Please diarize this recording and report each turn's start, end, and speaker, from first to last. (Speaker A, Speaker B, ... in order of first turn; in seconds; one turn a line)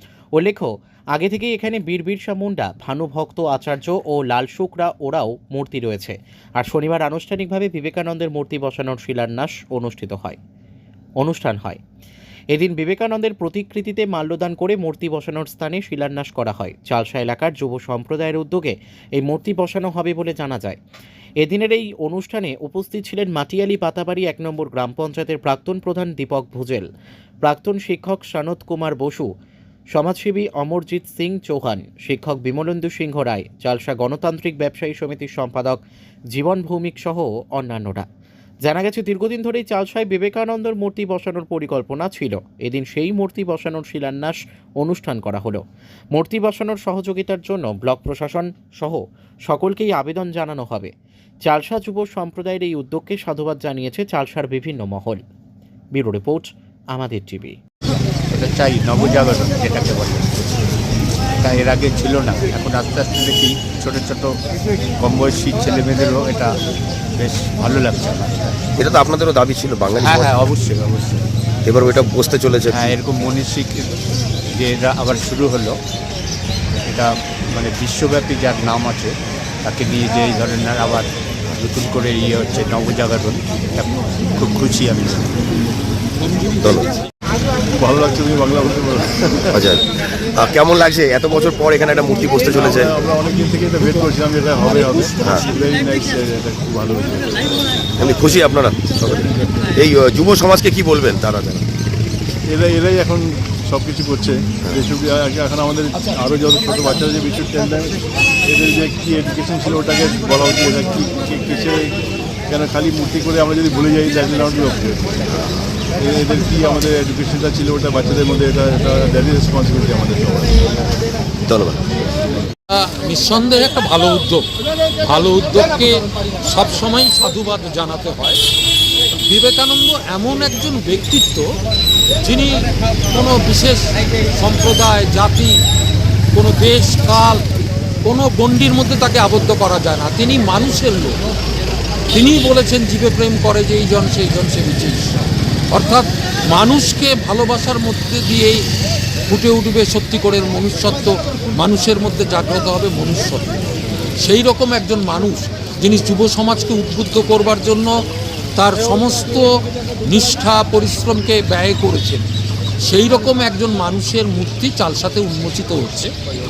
Speaker A: 0.4-10.4
Speaker A: 11.2-11.8
Speaker A: 12.5-20.8
Speaker A: 21.4-26.9
Speaker A: 27.4-29.3
Speaker A: 29.9-35.8
Speaker A: 36.3-38.0
Speaker A: 38.6-45.6
Speaker A: 46.1-50.9
Speaker A: 51.5-55.2
Speaker A: 55.9-57.5
Speaker B: 58.3-60.3
Speaker B: 61.4-64.4
Speaker B: 65.0-66.5
Speaker B: 67.2-68.6
Speaker C: 68.8-70.5
Speaker B: 70.0-71.2
Speaker C: 71.6-72.8
Speaker B: 72.7-74.0
Speaker B: 74.5-75.8
Speaker B: 76.9-85.3
Speaker C: 86.6-86.9
Speaker D: 87.8-89.6
Speaker C: 89.5-93.0
Speaker D: 92.4-97.5
Speaker C: 95.2-95.5
Speaker C: 98.0-101.6
Speaker D: 102.5-111.9
Speaker D: 112.5-115.2
Speaker D: 116.0-120.6
Speaker C: 121.5-121.8
Speaker E: 122.7-124.5
Speaker E: 125.0-128.4
Speaker E: 129.2-131.4
Speaker E: 132.2-133.8
Speaker E: 134.3-135.5
Speaker E: 136.3-137.5
Speaker E: 138.0-141.2
Speaker E: 142.1-148.6
Speaker E: 149.3-153.6
Speaker E: 154.2-157.9
Speaker E: 158.6-159.4
Speaker E: 160.1-162.2
Speaker E: 162.8-166.1